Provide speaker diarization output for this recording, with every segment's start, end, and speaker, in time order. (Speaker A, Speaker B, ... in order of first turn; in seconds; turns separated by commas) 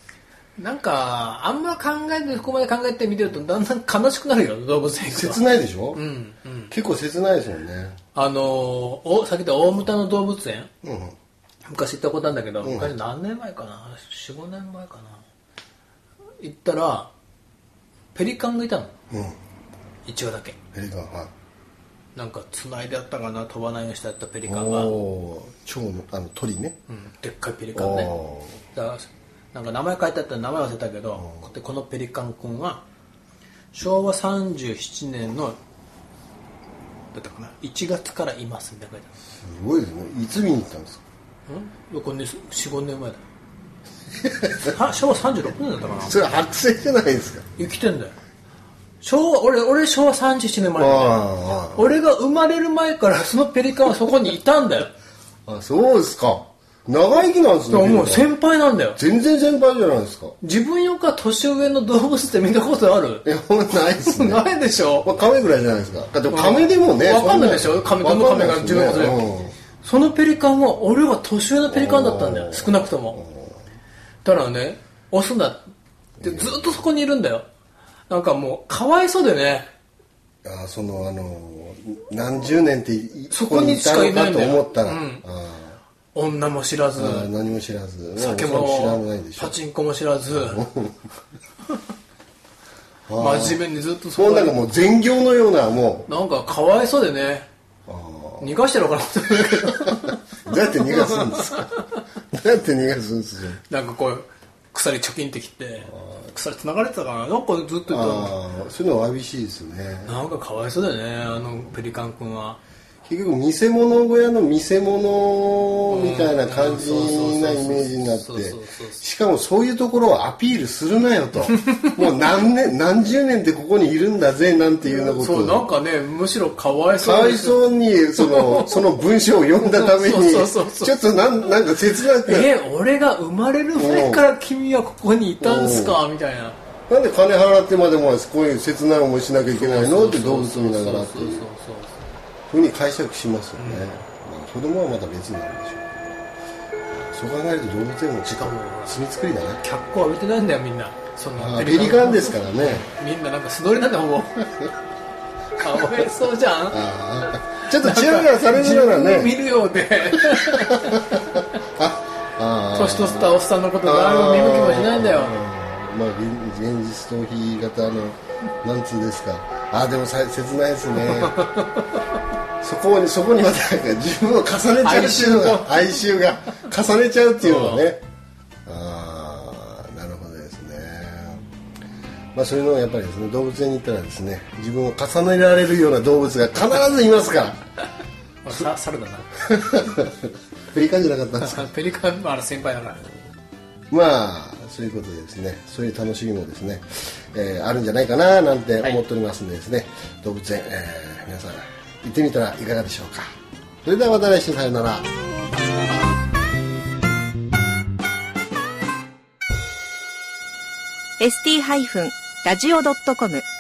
Speaker A: 0.6-6.7, Speaker B: 5.0-6.0, Speaker B: 6.7-8.0, Speaker A: 8.2-10.7, Speaker B: 10.8-11.2, Speaker A: 11.6-15.2, Speaker B: 12.6-12.9, Speaker A: 16.4-17.1, Speaker A: 18.1-18.9, Speaker B: 19.1-19.4, Speaker A: 20.1-20.6, Speaker B: 20.7-21.3, Speaker A: 22.1-24.9, Speaker B: 24.5-26.8, Speaker A: 26.9-28.1, Speaker B: 27.8-28.6, Speaker A: 28.7-32.9, Speaker B: 31.2-31.4, Speaker A: 33.7-35.6, Speaker A: 37.1-39.1, Speaker B: 39.4-41.0, Speaker A: 41.5-43.2, Speaker A: 44.6-46.3, Speaker B: 46.0-47.5, Speaker A: 47.6-48.2, Speaker A: 49.0-51.2, Speaker B: 50.8-52.0, Speaker A: 51.7-54.9, Speaker B: 55.5-58.4, Speaker A: 57.7-59.0, Speaker B: 59.0-60.4, Speaker A: 60.4-63.2, Speaker B: 63.2-64.5, Speaker A: 64.0-65.1, Speaker B: 65.0-69.5, Speaker A: 66.3-69.3, Speaker A: 69.8-73.2, Speaker B: 71.7-73.7, Speaker A: 74.2-75.7, Speaker B: 76.2-76.8, Speaker A: 76.2-77.5, Speaker A: 78.1-79.7, Speaker B: 80.4-85.8, Speaker A: 83.3-85.2, Speaker A: 86.1-87.3, Speaker B: 87.0-89.6, Speaker A: 88.2-90.6, Speaker B: 90.3-91.0, Speaker B: 93.1-96.1, Speaker A: 93.2-94.6, Speaker A: 96.1-97.5, Speaker B: 97.9-98.6, Speaker A: 98.4-101.8, Speaker B: 99.3-101.8, Speaker B: 102.3-103.6, Speaker A: 103.7-108.4, Speaker B: 107.9-110.2, Speaker A: 110.0-112.6, Speaker B: 113.0-125.7, Speaker A: 115.9-119.0, Speaker A: 121.6-122.0, Speaker A: 125.0-127.7, Speaker B: 127.0-132.5, Speaker A: 128.2-129.0, Speaker A: 129.6-131.0, Speaker A: 132.1-136.6, Speaker B: 133.8-134.3, Speaker B: 135.4-136.0, Speaker B: 136.9-141.5, Speaker A: 139.5-142.0, Speaker B: 142.5-146.2, Speaker A: 143.6-143.9, Speaker B: 146.9-149.6, Speaker A: 148.3-149.0, Speaker A: 149.6-154.5, Speaker B: 151.4-152.9, Speaker A: 155.6-161.5, Speaker B: 156.7-159.3, Speaker B: 160.2-171.4, Speaker A: 162.7-165.4, Speaker A: 171.0-172.0, Speaker B: 172.6-178.0, Speaker A: 174.8-176.1, Speaker A: 177.4-177.9, Speaker B: 178.7-181.4, Speaker B: 182.3-187.6, Speaker A: 188.4-189.3, Speaker B: 189.4-191.7, Speaker A: 191.4-193.1, Speaker B: 193.9-203.3, Speaker B: 203.8-205.1, Speaker C: 211.2-213.4